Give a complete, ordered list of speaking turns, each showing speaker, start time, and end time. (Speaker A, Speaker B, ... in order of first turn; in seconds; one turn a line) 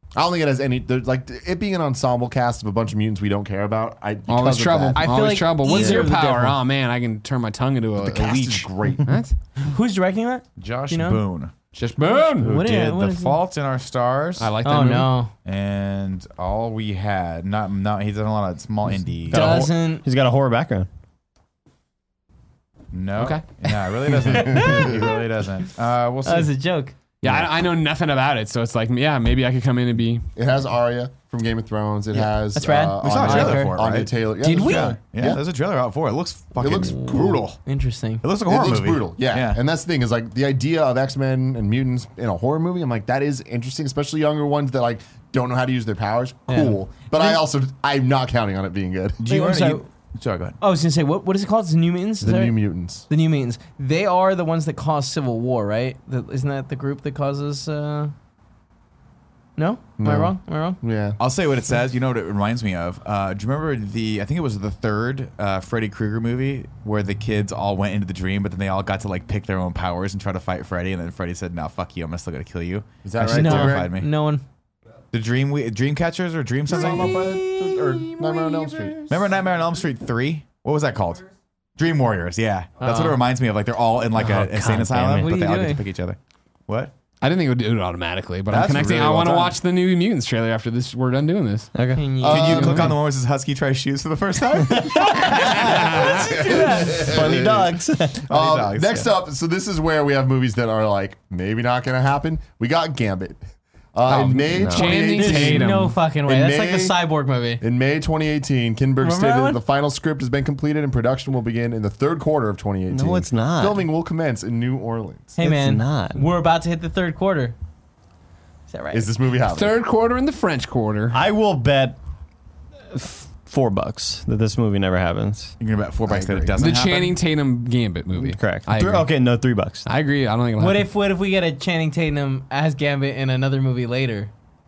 Speaker A: 0.2-5.2
Speaker B: 4.3-9.4
Speaker C: 5.0-6.6
Speaker D: 5.7-6.1
Speaker A: 8.0-9.0
Speaker E: 8.0-9.0
Speaker C: 9.6-11.2
Speaker E: 10.6-11.6
Speaker B: 11.7-12.5
Speaker E: 12.4-14.5
Speaker C: 12.4-13.4
Speaker B: 14.4-15.1
Speaker C: 14.6-15.3
Speaker E: 15.4-19.7
Speaker D: 19.3-20.9
Speaker C: 19.3-20.0
Speaker E: 22.9-26.5
Speaker B: 23.2-23.4
Speaker C: 24.2-25.1
Speaker A: 24.3-24.9
Speaker C: 26.2-26.9
Speaker B: 27.2-30.3
Speaker A: 30.4-35.4
Speaker C: 32.5-33.8
Speaker E: 33.0-37.6
Speaker C: 34.4-35.0
Speaker A: 36.6-37.4
Speaker C: 36.7-38.2
Speaker E: 38.2-39.6
Speaker A: 38.5-49.2
Speaker C: 46.5-47.4
Speaker E: 49.2-50.6
Speaker C: 49.3-49.9
Speaker C: 50.6-52.6
Speaker A: 52.2-53.1
Speaker C: 53.1-58.1
Speaker C: 59.6-60.8
Speaker A: 60.0-61.2
Speaker E: 61.2-74.1
Speaker A: 73.0-73.9
Speaker C: 73.3-74.4
Speaker E: 75.1-77.3
Speaker A: 76.7-79.0
Speaker C: 76.7-79.1
Speaker E: 79.1-86.9
Speaker C: 82.8-83.2
Speaker C: 84.6-85.8
Speaker B: 87.2-91.7
Speaker E: 88.5-89.6
Speaker D: 91.7-92.1
Speaker C: 92.0-92.8
Speaker E: 92.2-96.4
Speaker A: 92.2-92.9
Speaker B: 92.4-93.0
Speaker D: 94.7-96.1
Speaker C: 95.1-97.1
Speaker A: 95.7-103.4
Speaker B: 95.7-96.3
Speaker D: 96.8-98.3
Speaker E: 98.3-99.1
Speaker A: 103.9-107.0
Speaker B: 104.1-106.0
Speaker D: 104.5-105.1
Speaker C: 104.9-107.6
Speaker A: 107.6-115.4
Speaker C: 109.0-109.6
Speaker D: 112.9-113.8
Speaker C: 115.4-117.6
Speaker D: 115.4-116.2
Speaker C: 118.7-119.1
Speaker A: 118.9-119.8
Speaker B: 119.5-121.2
Speaker D: 121.1-122.0
Speaker D: 122.9-125.5
Speaker E: 125.6-127.2
Speaker A: 126.1-126.6
Speaker B: 126.6-129.1
Speaker D: 128.2-129.9
Speaker B: 129.9-130.9
Speaker C: 130.6-134.3